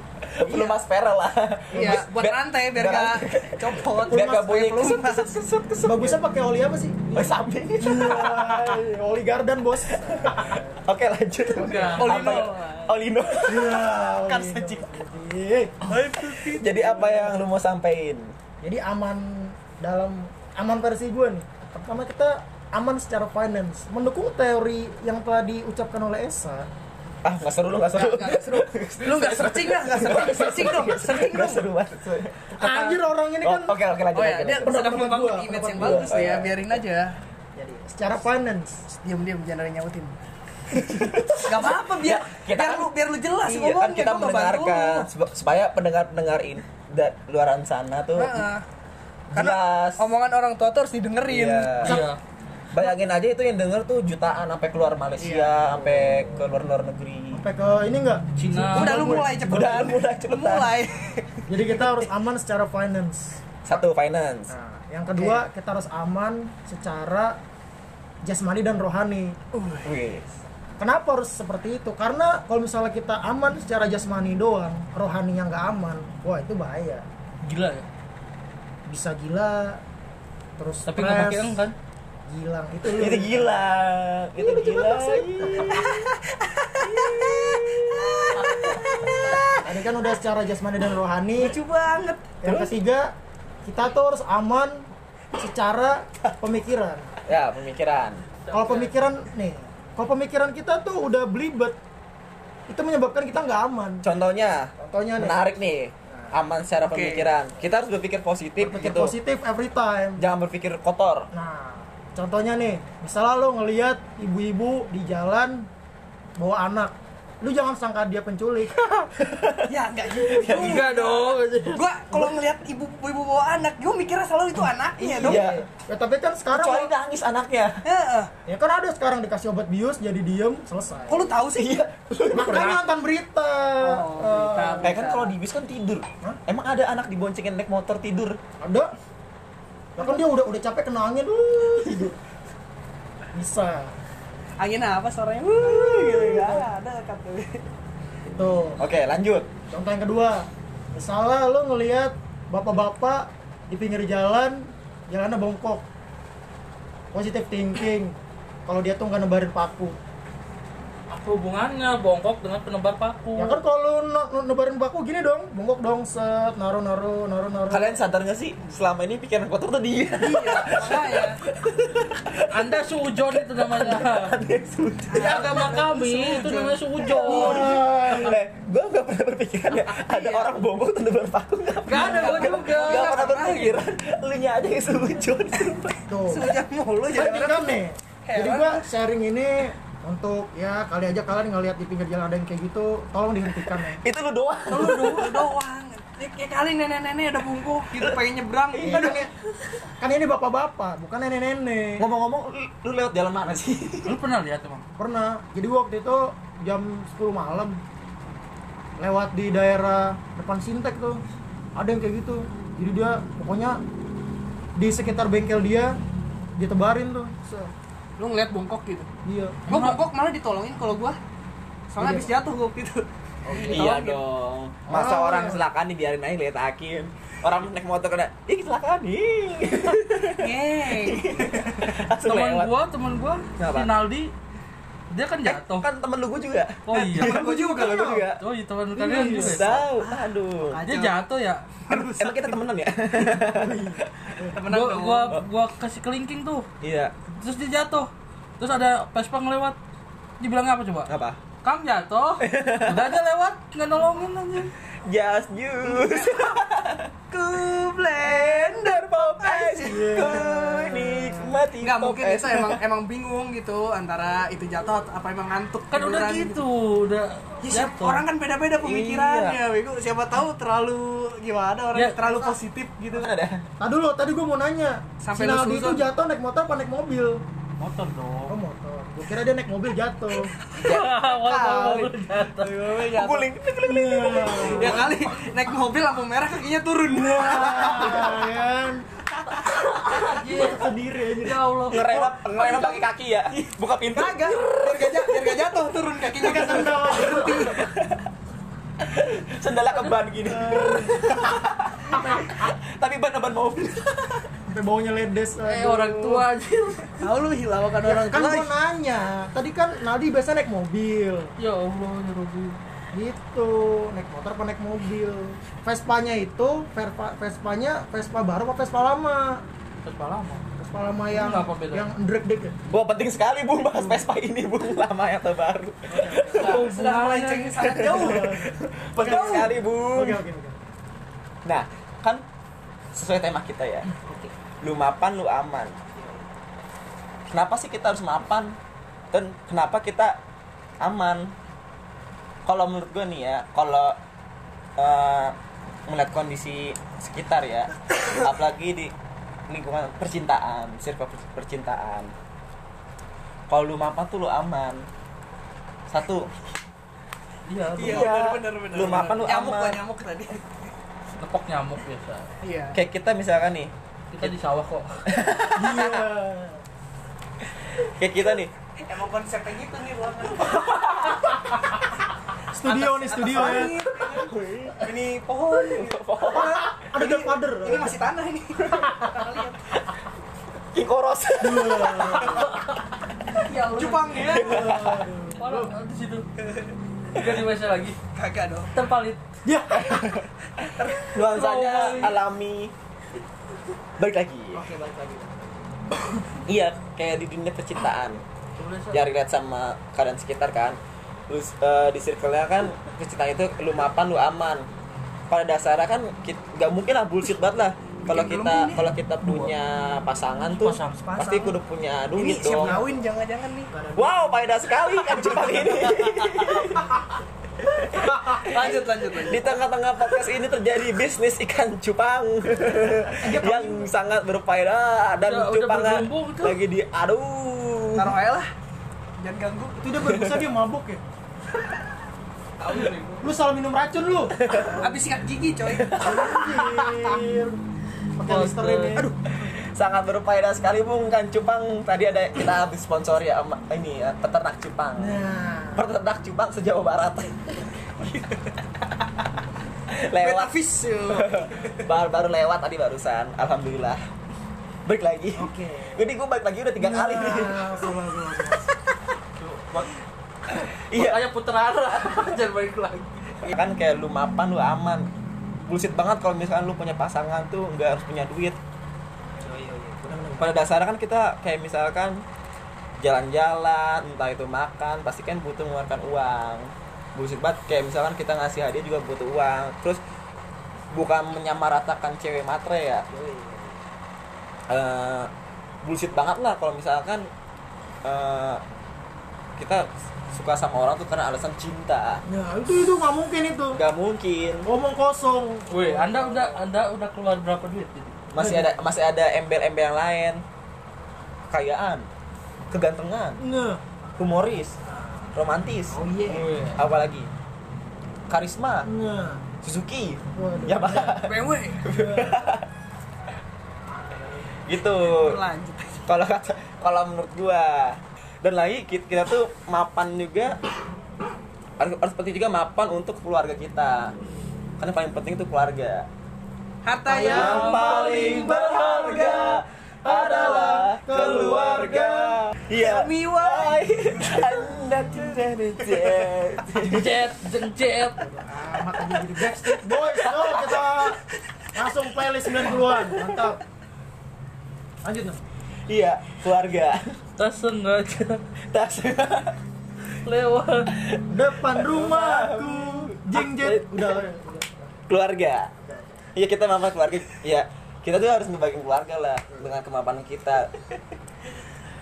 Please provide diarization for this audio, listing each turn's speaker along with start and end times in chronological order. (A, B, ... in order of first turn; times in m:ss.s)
0:00.3-0:05.5 A
0:00.5-0:00.8 B
0:01.7-0:02.0 B
0:01.7-0:06.2 C
0:05.8-0:10.8 B
0:07.1-0:08.8 A
0:10.0-0:14.0 A
0:11.5-0:12.1 B
0:11.6-0:12.4 D
0:12.0-0:13.0 C
0:13.4-0:15.8 B
0:14.3-0:14.9 C
0:15.9-0:17.4 C
0:16.6-0:18.3 A
0:18.6-0:26.7 B
0:27.2-0:32.5 A
0:27.9-0:31.7 C
0:32.5-0:33.0 C
0:32.6-0:33.8 B
0:33.4-0:34.8 A
0:34.1-0:37.2 C
0:34.6-0:36.4 B
0:35.8-0:36.7 A
0:37.6-0:38.8 B
0:39.0-0:40.2 C
0:40.7-0:41.7 B
0:40.9-0:48.5 A
0:41.4-0:45.1 C
0:48.2-0:48.6 C
0:49.3-0:50.1 A
0:49.3-0:51.9 C
0:51.3-0:52.0 A
0:51.8-0:52.2 D
0:52.7-0:57.4 A
0:55.2-0:55.8 C
0:57.3-0:59.8 B
0:58.4-0:59.3 D
0:58.7-1:01.9 C
0:59.4-1:00.8 A
1:01.5-1:03.8 B
1:03.6-1:04.5 A
1:04.5-1:07.4 B
1:05.2-1:05.4 C
1:08.2-1:09.4 B
1:09.5-1:09.9 C
1:09.8-1:10.3 A
1:10.8-1:17.0 B
1:17.4-1:17.8 D
1:18.9-1:19.8 B
1:20.6-1:21.6 B
1:20.9-1:21.8 D
1:22.3-1:23.4 B
1:23.0-1:25.9 A
1:24.4-1:25.8 B
1:25.7-1:29.7 C
1:26.8-1:28.7 A
1:29.6-1:31.6 B
1:31.4-1:32.3 C
1:32.4-1:37.1 B
1:32.4-1:32.7 A
1:37.3-1:38.2 A
1:38.4-1:38.9 D
1:38.5-1:41.8 B
1:42.7-1:44.0 B
1:44.0-1:49.2 A
1:44.8-1:45.5 B
1:46.8-1:47.3 C
1:48.6-1:50.2 B
1:50.2-1:51.3 A
1:51.3-1:55.7 B
1:56.4-1:59.0 B
1:59.2-2:00.9 A
1:59.7-2:05.5 C
2:00.4-2:01.8 D
2:05.0-2:06.9 B
2:05.2-2:05.6 A
2:06.5-2:07.8 A
2:07.8-2:08.3 C
2:08.5-2:11.3 B
2:11.1-2:11.9 C
2:11.5-2:12.8 A
2:12.3-2:15.0 B
2:13.8-2:15.4 C
2:14.8-2:18.4 A
2:18.6-2:18.9 B
2:20.0-2:22.2 B
2:23.3-2:23.9 B
2:24.6-2:27.6 C
2:26.0-2:26.6 B
2:28.3-2:28.8 B
2:28.8-2:29.5 A
2:29.7-2:35.8 B
2:37.1-2:40.0 B
2:41.1-2:43.6 D
2:43.4-2:48.0 B
2:47.7-2:55.5 A
2:50.2-2:51.4 C
2:52.5-2:54.4 D
2:55.1-2:57.7 C
2:55.1-2:58.3 D
2:57.2-2:58.4 B
2:57.3-3:06.0 A
2:59.7-3:00.5 C
3:01.9-3:03.2 D
3:01.9-3:03.8 C
3:06.1-3:06.5 B
3:06.3-3:08.8 C
3:07.1-3:14.0 B
3:14.0-3:15.5 A
3:14.7-3:19.2 C
3:18.7-3:19.2 A
3:18.8-3:19.3 B
3:20.0-3:22.0 B
3:22.0-3:24.2 A
3:24.0-3:24.8 D
3:25.0-3:27.8 B
3:29.0-3:31.2 B
3:31.8-3:33.8 B
3:34.8-3:36.0 B
3:36.6-3:37.7 B
3:38.2-3:39.1 C
3:39.2-3:39.6 B
3:39.7-3:40.0 D
3:39.7-3:41.2 C
3:41.9-3:44.2 C
3:42.0-3:42.3 B
3:43.5-3:43.8 B
3:43.7-3:52.7 A
3:44.9-3:45.6 B
3:50.4-3:52.0 C
3:52.2-3:54.3 D
3:53.6-3:53.9 A
3:55.1-3:55.9 D
3:55.4-3:58.4 A
3:56.9-3:57.4 D
3:56.9-3:58.2 C
3:57.4-3:58.3 B
3:58.4-3:59.7 D
3:59.0-3:59.5 B
3:59.3-4:01.2 C
3:59.3-4:00.8 A
4:00.9-4:01.7 D
4:01.9-4:02.6 C
4:02.2-4:04.1 A
4:03.3-4:04.6 B
4:04.5-4:05.4 C
4:04.7-4:06.7 D
4:06.8-4:07.1 A
4:07.3-4:09.8 D
4:10.4-4:11.1 D
4:11.1-4:11.4 A
4:11.6-4:14.7 D
4:12.4-4:13.1 A
4:15.1-4:17.1 A
4:16.0-4:16.5 C
4:17.3-4:20.4 C
4:18.2-4:22.8 A
4:19.9-4:21.6 B
4:21.8-4:26.6 C
4:25.9-4:28.2 D
4:27.6-4:33.3 C
4:28.8-4:29.6 A
4:33.1-4:33.6 A
4:33.8-4:37.4 B
4:35.2-4:36.0 C
4:37.8-4:38.6 D
4:38.5-4:40.5 B
4:40.8-4:42.1 A
4:40.8-4:42.8 D
4:42.6-4:43.5 C
4:42.8-4:45.2 A
4:43.8-4:45.1 B
4:44.7-4:48.4 C
4:47.1-4:49.0 B
4:49.4-4:50.3 C
4:50.0-4:52.3 D
4:50.3-4:51.7 B
4:51.9-4:55.6 A
4:52.6-4:57.8 C
4:56.4-4:57.7 B
4:57.0-4:58.3 A
4:59.0-5:04.5 A
5:00.4-5:01.3 B
5:02.1-5:02.7 B
5:04.7-5:06.4 B
5:05.7-5:07.2 D
5:07.2-5:08.7 C
5:08.0-5:11.5 B
5:11.6-5:12.8 D
5:13.1-5:19.6 B
5:20.0-5:20.6 D
5:20.8-5:22.7 B
5:21.3-5:22.1 D
5:22.9-5:26.9 A
5:23.9-5:24.2 B
5:26.1-5:26.8 B
5:26.4-5:28.5 C
5:26.5-5:27.8 D
5:27.8-5:30.4 A
5:28.0-5:30.8 B
5:29.2-5:29.7 C
5:31.6-5:32.4 A
5:33.1-5:34.1 A
5:34.3-5:34.5 B
5:34.8-5:36.0 A
5:36.2-5:36.5 B
5:37.5-5:38.8 A
5:39.3-5:40.4 A
5:41.0-5:41.5 A
5:42.7-5:44.2 A
5:45.0-5:45.6 A
5:46.1-5:49.1 A
5:49.7-5:52.3 A
5:53.7-5:55.0 A
5:56.1-5:56.5 A
5:57.7-5:58.4 D
5:58.0-6:00.7 C
5:58.0-6:00.0 A
6:01.4-6:02.5 D
6:02.6-6:03.0 C
6:02.9-6:04.6 A
6:04.3-6:05.1 D
6:05.3-6:06.2 A
6:05.8-6:06.8 B
6:08.0-6:08.7 A
6:09.0-6:11.2 C
6:10.7-6:11.5 A
6:12.7-6:14.0 B
6:12.8-6:20.0 C
6:14.3-6:15.0 A
6:15.9-6:16.8 A
6:16.5-6:18.2 B
6:18.8-6:19.3 A
6:20.9-6:22.7 A
6:21.6-6:22.8 B
6:23.7-6:24.8 C
6:23.7-6:24.3 D
6:24.4-6:25.3 A
6:24.4-6:25.9 B
6:25.6-6:26.5 D
6:27.3-6:28.2 D
6:28.3-6:28.9 C
6:28.9-6:29.4 D
6:29.6-6:30.4 B
6:29.9-6:32.9 A
6:31.4-6:32.4 D
6:34.2-6:34.8 A
6:34.7-6:35.8 B
6:36.7-6:38.4 A
6:38.8-6:39.2 D
6:39.1-6:41.0 A
6:41.5-6:44.9 A
6:45.5-6:53.0 A
6:48.3-6:49.1 C
6:49.4-6:49.7 D
6:50.7-6:51.2 D
6:51.2-6:51.8 C
6:52.4-6:53.9 C
6:52.7-6:53.2 B
6:53.9-6:54.8 B
6:54.2-6:57.2 A
6:55.4-6:56.0 B
6:56.1-6:56.9 C
6:57.8-7:08.4 A
6:58.5-6:59.7 C
7:03.4-7:04.1 B
7:05.4-7:06.8 D
7:08.2-7:08.7 C
7:09.4-7:10.1 C
7:10.0-7:11.2 B
7:10.2-7:10.6 A
7:12.8-7:13.5 D
7:13.4-7:14.6 B
7:14.6-7:15.0 A
7:15.0-7:16.5 C
7:15.9-7:17.2 A
7:16.2-7:17.8 B
7:18.4-7:19.3 B
7:18.5-7:19.2 D
7:19.2-7:25.4 A
7:25.2-7:26.0 B
7:26.0-7:27.8 A
7:28.2-7:28.8 C
7:30.1-7:30.7 A
7:30.4-7:32.0 C
7:31.3-7:34.2 A
7:35.1-7:38.0 A
7:35.6-7:36.2 B
7:37.0-7:39.0 B
7:39.6-7:40.1 D
7:41.1-7:41.4 A
7:41.1-7:43.7 D
7:43.6-7:45.3 A
7:45.8-7:48.8 A
7:49.6-7:50.7 B
7:50.6-7:52.4 A
7:53.2-8:00.2 A
8:01.1-8:03.3 A
8:03.3-8:04.0 B
8:04.9-8:05.5 A
8:06.0-8:07.5 A
8:08.2-8:08.8 A
8:09.8-8:12.4 A
8:12.5-8:14.0 B
8:13.9-8:14.9 A
8:14.8-8:16.8 B
8:15.9-8:18.4 D
8:18.5-8:20.6 A
8:18.6-8:19.0 B
8:21.7-8:22.3 A
8:22.9-8:23.6 A
8:23.6-8:24.0 B
8:24.4-8:25.0 A
8:25.6-8:26.2 A
8:26.1-8:26.7 B
8:26.5-8:27.0 D
8:26.9-8:27.5 A
8:28.5-8:29.1 A
8:29.0-8:29.6 B
8:29.8-8:32.9 A
8:30.6-8:31.4 B
8:31.4-8:32.1 C
8:32.1-8:32.7 B
8:34.9-8:35.6 A
8:35.3-8:36.3 C
8:36.3-8:40.8 A
8:42.0-8:44.3 A
8:45.0-8:46.3 A
8:47.0-8:49.2 C
8:47.3-8:52.6 B
8:47.5-8:48.9 D
8:47.5-8:57.4 A
8:52.9-8:54.5 C
8:56.1-8:56.4 C
8:57.0-8:58.4 D
8:58.4-9:01.4 B
9:00.1-9:01.4 A
9:01.9-9:03.8 B
9:02.8-9:03.6 A
9:05.2-9:05.6 B
9:06.1-9:07.3 A
9:07.6-9:08.6 D
9:08.9-9:09.8 A
9:10.4-9:11.1 D
9:11.1-9:14.4 A
9:11.5-9:15.1 B
9:15.3-9:15.9 A
9:16.0-9:16.4 B
9:16.6-9:21.2 A